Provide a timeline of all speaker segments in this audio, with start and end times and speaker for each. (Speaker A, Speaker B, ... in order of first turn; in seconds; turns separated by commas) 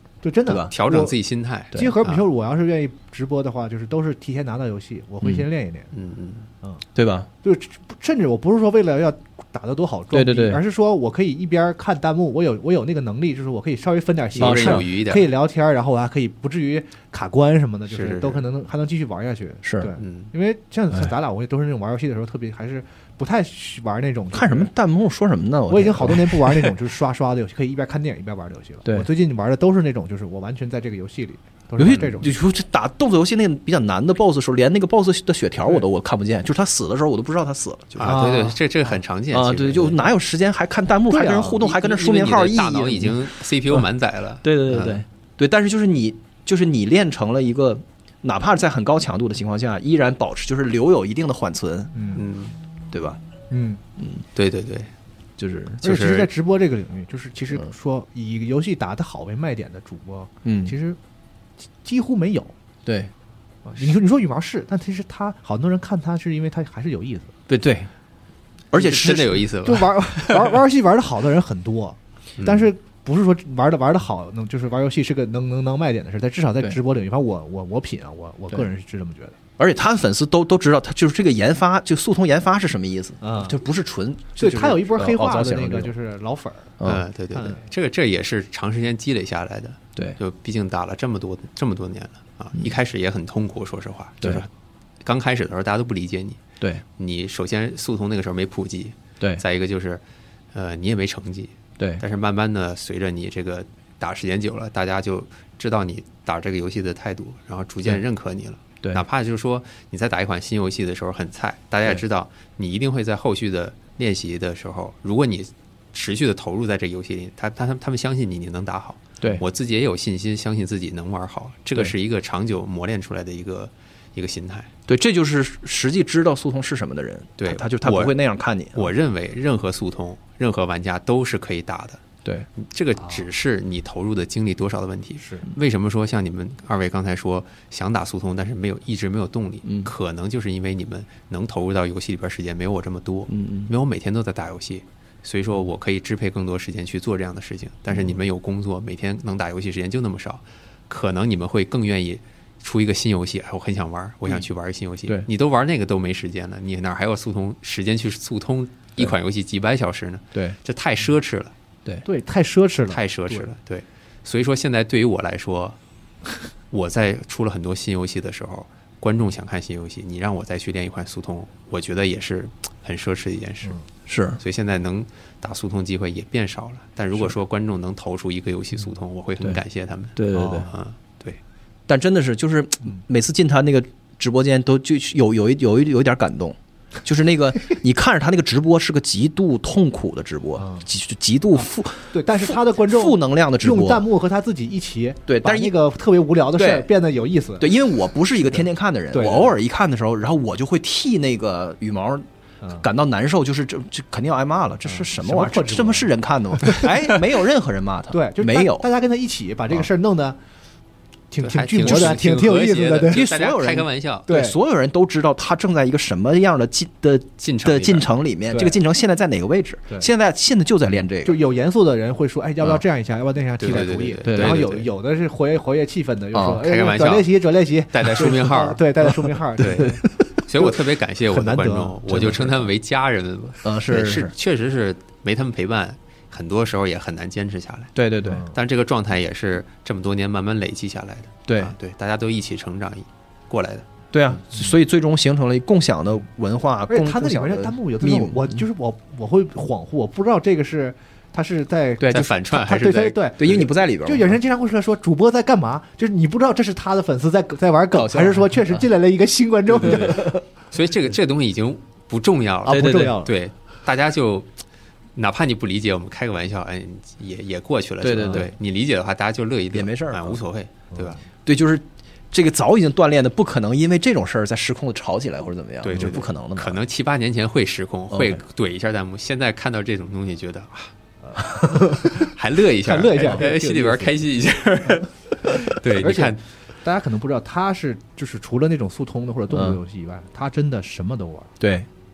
Speaker A: 0.2-1.1, Speaker B: 0.5-0.7, Speaker C: 0.7-2.2, Speaker A: 1.7-5.9, Speaker C: 5.9-6.5, Speaker B: 6.9-7.3, Speaker A: 7.4-24.7, Speaker B: 10.1-10.6, Speaker C: 14.3-15.3, Speaker B: 14.4-14.9, Speaker C: 17.9-18.4, Speaker B: 19.6-19.9, Speaker C: 20.0-20.3, Speaker B: 24.3-26.7, Speaker A: 25.7-32.3, Speaker B: 31.8-38.4, Speaker C: 37.9-40.1, Speaker A: 38.0-38.5, Speaker B: 39.3-43.9, Speaker A: 41.1-41.6, Speaker C: 41.5-45.0, Speaker B: 44.4-51.9, Speaker A: 51.9-52.2, Speaker C: 52.1-52.5, Speaker B: 52.9-53.2, Speaker A: 53.5-53.8, Speaker B: 54.0-54.2, Speaker C: 54.3-54.9, Speaker B: 55.4-55.8, Speaker A: 55.8-61.0, Speaker C: 55.8-56.3, Speaker B: 60.4-60.7, Speaker A: 61.8-62.5, Speaker B: 62.9-63.1, Speaker A: 63.6-67.3, Speaker B: 67.5-67.9, Speaker B: 68.7-69.4, Speaker C: 68.7-70.5, Speaker A: 69.6-79.3, Speaker C: 72.4-72.7, Speaker B: 79.6-85.9, Speaker A: 83.2-83.5, Speaker A: 84.4-86.8, Speaker B: 86.8-87.0, Speaker C: 86.8-94.5, Speaker A: 87.3-87.6, Speaker C: 95.0-96.4, Speaker C: 97.0-124.7, Speaker B: 124.9-128.9, Speaker C: 127.4-128.2, Speaker C: 128.7-132.0, Speaker C: 132.6-161.5, Speaker A: 133.0-133.2, Speaker A: 135.2-135.4, Speaker B: 139.6-139.9, Speaker B: 143.3-143.7, Speaker A: 162.0-163.5, Speaker C: 162.9-165.8, Speaker C: 166.7-173.8, Speaker B: 174.1-174.4, Speaker C: 174.4-181.4, Speaker B: 180.2-180.7, Speaker A: 180.3-180.7, Speaker B: 181.9-194.0, Speaker A: 190.6-190.8, Speaker A: 192.1-197.7, Speaker B: 195.3-195.8, Speaker B: 196.6-196.9, Speaker B: 197.6-202.2, Speaker A: 198.5-199.5, Speaker B: 202.8-208.9, Speaker A: 204.8-207.2, Speaker A: 208.1-210.4, Speaker A: 211.3-213.2, Speaker C: 211.4-214.2, Speaker B: 211.8-212.2, Speaker B: 213.1-221.4, Speaker A: 214.3-214.6, Speaker C: 217.4-218.1, Speaker A: 218.5-218.8, Speaker A: 221.2-230.0, Speaker C: 223.6-224.9, Speaker B: 224.2-224.6, Speaker B: 226.3-226.6, Speaker C: 226.6-227.3, Speaker C: 227.9-228.8, Speaker C: 229.6-237.9, Speaker B: 229.6-230.1, Speaker A: 231.3-232.7, Speaker B: 233.6-234.3, Speaker B: 237.9-238.4, Speaker A: 238.2-238.5, Speaker C: 238.5-243.8, Speaker B: 241.5-241.7, Speaker B: 244.1-248.6, Speaker A: 246.9-260.4, Speaker B: 252.0-252.3, Speaker C: 252.1-253.7, Speaker B: 253.4-254.3, Speaker B: 257.9-258.9, Speaker C: 259.7-264.6, Speaker B: 259.8-260.4, Speaker A: 262.6-263.3, Speaker B: 262.7-263.2, Speaker C: 265.1-271.2, Speaker B: 268.0-268.5, Speaker B: 269.7-270.4, Speaker A: 270.9-271.2, Speaker B: 271.4-276.8, Speaker C: 275.8-280.9, Speaker B: 278.1-278.4, Speaker A: 281.2-282.3, Speaker C: 281.8-286.4, Speaker A: 282.8-284.1, Speaker A: 285.5-291.5, Speaker B: 289.5-289.8, Speaker B: 291.6-291.9